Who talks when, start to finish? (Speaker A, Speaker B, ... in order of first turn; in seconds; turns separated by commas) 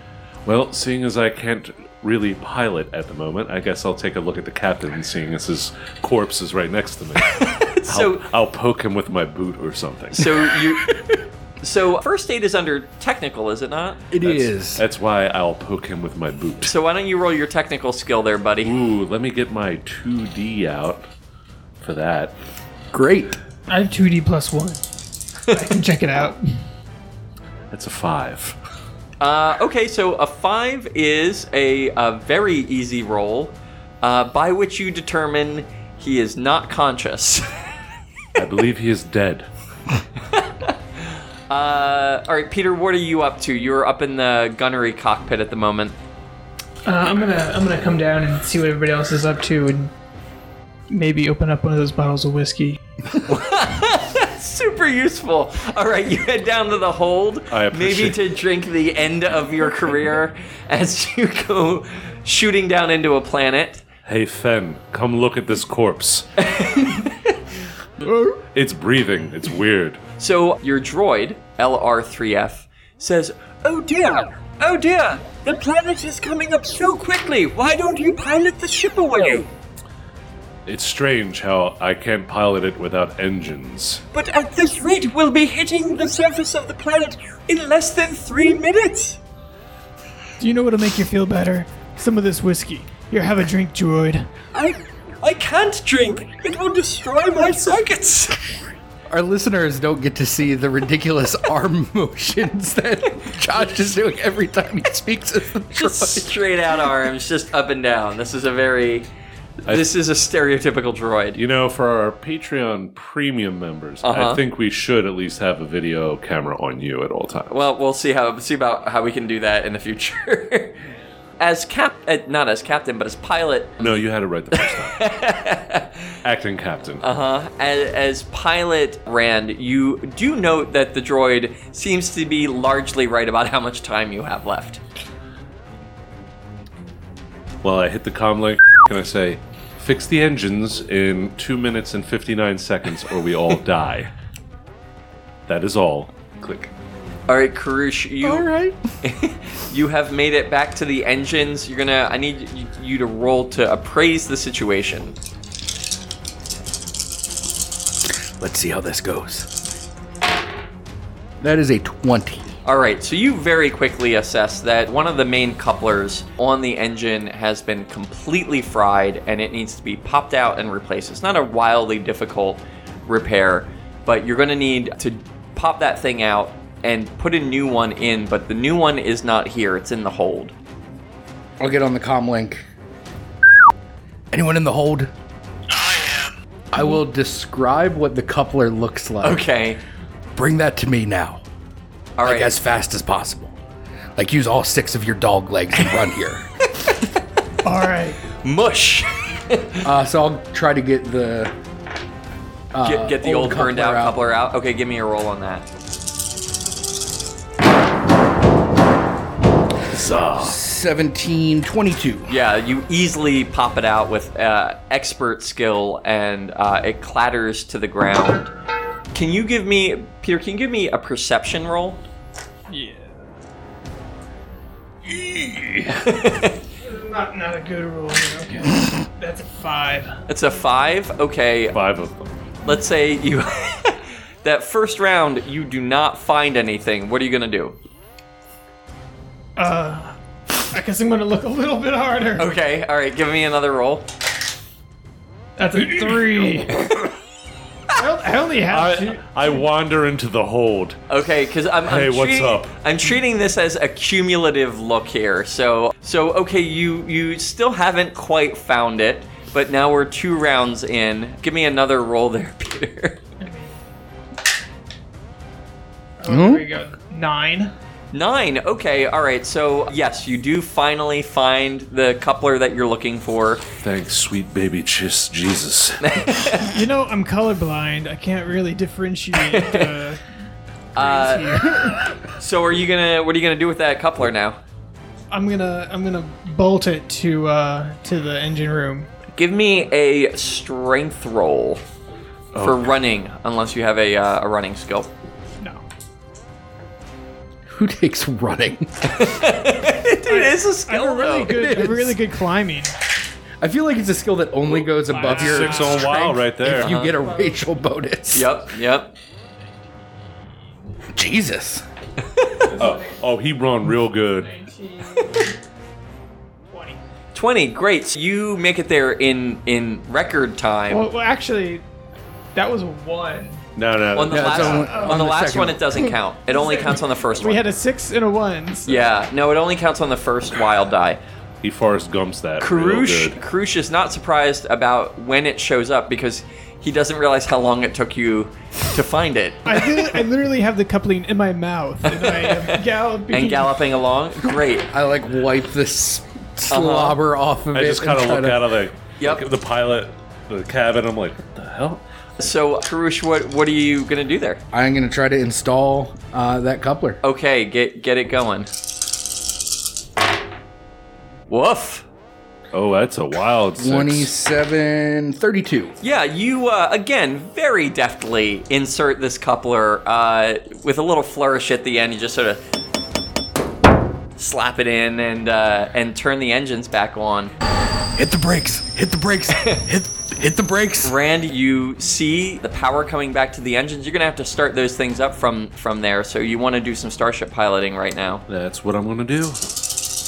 Speaker A: 0.5-10.4, Speaker B: 7.2-8.2, Speaker B: 10.2-10.9, Speaker C: 10.8-11.2, Speaker B: 11.6-14.1, Speaker C: 14.1-14.8, Speaker A: 14.2-16.7, Speaker B: 16.6-18.7, Speaker A: 18.6-21.1, Speaker A: 21.8-22.4, Speaker C: 22.9-23.4, Speaker D: 23.7-24.8, Speaker D: 25.5-26.4, Speaker A: 27.7-28.6, Speaker B: 29.2-37.5, Speaker A: 38.4-39.5, Speaker B: 40.3-40.7, Speaker B: 41.5-46.0, Speaker D: 46.9-49.9, Speaker D: 50.9-52.8, Speaker B: 53.3-63.8, Speaker A: 57.5-58.2, Speaker A: 64.0-66.4, Speaker B: 66.4-67.2, Speaker D: 68.0-68.4, Speaker A: 68.5-70.0, Speaker B: 70.2-79.5, Speaker A: 80.7-84.0, Speaker B: 84.1-89.2, Speaker D: 90.4-94.3, Speaker B: 94.5-98.4, Speaker C: 99.1-106.3, Speaker B: 105.8-109.1, Speaker B: 109.7-111.4, Speaker A: 111.4-117.6, Speaker B: 114.0-114.4, Speaker B: 117.5-120.8, Speaker B: 121.4-123.9, Speaker A: 123.8-125.0, Speaker B: 124.5-126.0, Speaker A: 126.2-127.0, Speaker B: 127.0-134.8, Speaker A: 137.6-144.1, Speaker A: 145.5-146.7, Speaker B: 147.3-148.5, Speaker C: 148.2-148.8, Speaker B: 149.0-155.2, Speaker C: 158.4-159.5, Speaker C: 161.4-162.5, Speaker B: 162.7-180.5, Speaker C: 181.6-182.6, Speaker C: 184.3-185.1, Speaker C: 186.7-189.4, Speaker B: 189.2-189.8, Speaker C: 190.4-191.4, Speaker B: 192.2-192.5, Speaker C: 192.2-193.6, Speaker C: 194.2-196.5, Speaker D: 197.6-198.2, Speaker B: 198.4-199.9, Speaker C: 199.8-201.5, Speaker C: 202.7-204.2, Speaker B: 202.8-205.7, Speaker A: 209.9-210.6, Speaker C: 210.4-212.3, Speaker B: 212.3-218.5, Speaker B: 219.1-222.0, Speaker D: 222.7-223.2, Speaker B: 225.9-226.6, Speaker D: 226.8-230.2, Speaker B: 230.3-231.8, Speaker A: 231.7-232.3, Speaker B: 232.6-237.8, Speaker D: 239.6-242.5, Speaker B: 242.4-244.1, Speaker D: 245.6-246.9, Speaker D: 248.0-249.6, Speaker A: 248.7-251.0, Speaker B: 251.1-263.2, Speaker A: 251.8-252.7, Speaker D: 263.4-263.8, Speaker D: 266.2-267.7, Speaker C: 266.3-266.6, Speaker B: 268.1-273.7, Speaker A: 273.8-276.2, Speaker B: 276.0-276.8, Speaker D: 276.7-280.2, Speaker B: 279.4-279.9, Speaker B: 280.9-281.7, Speaker D: 281.0-282.1, Speaker B: 282.4-284.6, Speaker D: 285.3-289.1, Speaker B: 289.4-291.8, Speaker A: 292.5-292.9, Speaker B: 292.6-295.1, Speaker C: 297.7-299.1, Speaker B: 299.1-301.7, Speaker D: 300.2-302.9, Speaker C: 301.5-302.2, Speaker C: 303.6-308.5, Speaker D: 305.0-306.4, Speaker A: 305.2-306.9, Speaker B: 306.8-307.2, Speaker D: 307.2-307.6, Speaker B: 308.3-309.1, Speaker C: 311.1-311.8, Speaker B: 312.3-312.7, Speaker A: 312.7-314.6, Speaker D: 314.4-315.5, Speaker D: 316.7-317.0, Speaker B: 317.4-321.1, Speaker D: 320.9-321.8, Speaker D: 322.6-323.6, Speaker A: 323.8-324.9, Speaker B: 324.1-327.7, Speaker C: 324.3-326.1, Speaker D: 324.6-325.3, Speaker D: 326.5-329.1, Speaker B: 328.9-331.2, Speaker A: 331.6-333.4, Speaker B: 332.6-340.2, Speaker D: 339.7-343.9, Speaker B: 342.1-344.9, Speaker C: 344.9-348.6, Speaker B: 346.7-347.2, Speaker A: 347.7-352.0, Speaker B: 349.2-349.4, Speaker B: 352.4-354.6, Speaker C: 354.7-357.2, Speaker B: 357.2-358.7, Speaker B: 361.5-362.1, Speaker A: 362.7-364.3, Speaker C: 363.8-366.0, Speaker B: 366.0-372.6, Speaker B: 374.4-377.5, Speaker C: 378.2-381.1, Speaker B: 381.0-388.4, Speaker A: 388.5-389.6